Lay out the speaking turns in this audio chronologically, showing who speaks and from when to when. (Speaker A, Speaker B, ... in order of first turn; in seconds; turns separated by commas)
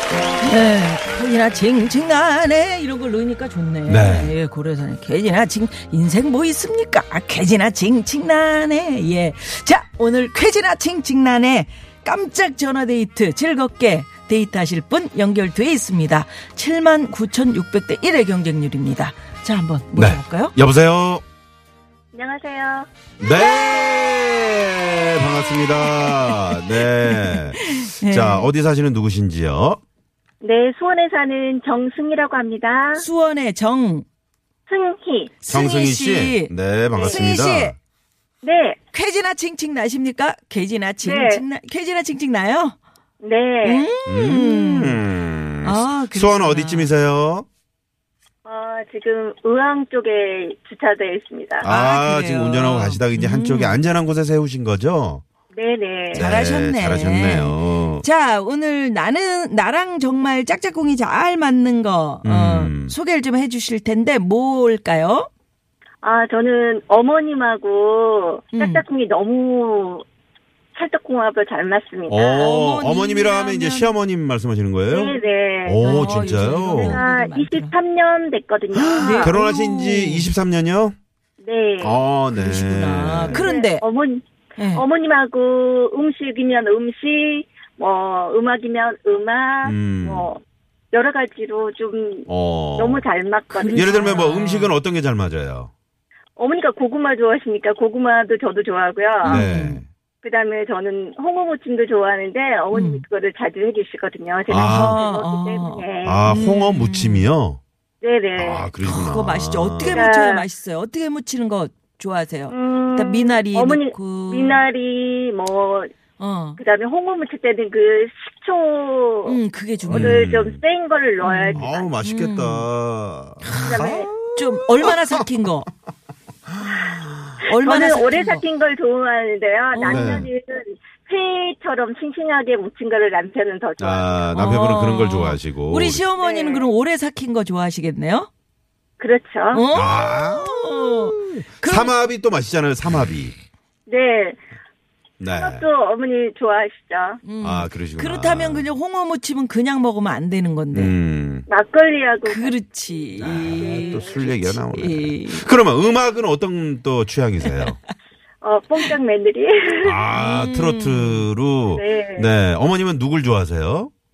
Speaker A: 0.4-20.5, Speaker B: 3.9-4.3, Speaker B: 19.9-21.2, Speaker C: 22.1-23.9, Speaker B: 23.2-29.8, Speaker A: 25.8-28.5, Speaker C: 30.4-33.0, Speaker A: 32.9-34.0, Speaker C: 34.7-35.3, Speaker A: 35.4-37.8, Speaker B: 35.5-37.8, Speaker C: 36.9-37.2, Speaker C: 38.4-38.8, Speaker A: 38.9-42.8, Speaker C: 41.0-41.4, Speaker C: 43.2-43.9, Speaker A: 43.6-45.0, Speaker B: 44.0-47.5, Speaker A: 45.6-46.9, Speaker C: 48.4-51.7, Speaker B: 51.6-55.2, Speaker A: 51.6-53.8, Speaker C: 55.5-56.2, Speaker B: 56.1-58.0, Speaker A: 56.1-65.3, Speaker B: 62.2-62.9, Speaker C: 66.0-70.0, Speaker A: 68.5-68.8, Speaker C: 70.7-72.5, Speaker B: 72.1-75.1, Speaker A: 72.4-73.9, Speaker C: 74.9-79.3, Speaker B: 75.6-77.0, Speaker A: 75.8-77.7, Speaker B: 78.7-81.0, Speaker A: 79.0-80.3, Speaker C: 81.4-82.0, Speaker B: 81.8-83.4, Speaker A: 82.3-83.8, Speaker C: 83.3-90.4, Speaker A: 84.5-84.8, Speaker B: 89.6-90.3, Speaker C: 90.9-94.1, Speaker B: 92.3-93.0, Speaker A: 93.5-94.7, Speaker B: 93.7-95.7, Speaker C: 96.4-99.5, Speaker A: 99.2-99.8, Speaker B: 99.2-99.9, Speaker C: 100.2-106.3, Speaker A: 102.7-103.0, Speaker B: 104.5-105.0, Speaker A: 104.6-107.3, Speaker B: 106.0-107.6, Speaker C: 108.0-108.7, Speaker B: 108.3-110.0, Speaker A: 108.8-114.6, Speaker C: 109.8-110.5, Speaker C: 112.5-115.9, Speaker A: 116.2-116.6, Speaker C: 116.6-121.9, Speaker A: 119.2-120.2, Speaker B: 119.9-120.6, Speaker A: 121.2-122.7, Speaker B: 121.5-125.2, Speaker A: 123.5-125.7, Speaker C: 123.6-124.1, Speaker B: 126.5-127.3, Speaker C: 127.4-134.5, Speaker A: 127.5-128.4, Speaker A: 129.7-130.2, Speaker B: 129.9-130.3, Speaker B: 133.8-136.0, Speaker A: 134.3-138.3, Speaker C: 136.2-136.7, Speaker C: 139.0-139.7, Speaker A: 139.5-141.9, Speaker B: 139.7-143.3, Speaker C: 143.9-144.4, Speaker B: 145.2-145.7, Speaker C: 145.3-147.2, Speaker A: 147.2-150.9, Speaker B: 147.4-148.7, Speaker B: 150.7-151.4, Speaker C: 151.5-152.6, Speaker A: 152.2-155.4, Speaker B: 153.2-157.8, Speaker C: 153.6-154.2, Speaker A: 157.4-157.7, Speaker C: 158.4-160.0, Speaker B: 159.8-163.9, Speaker A: 160.1-161.2, Speaker C: 161.7-162.3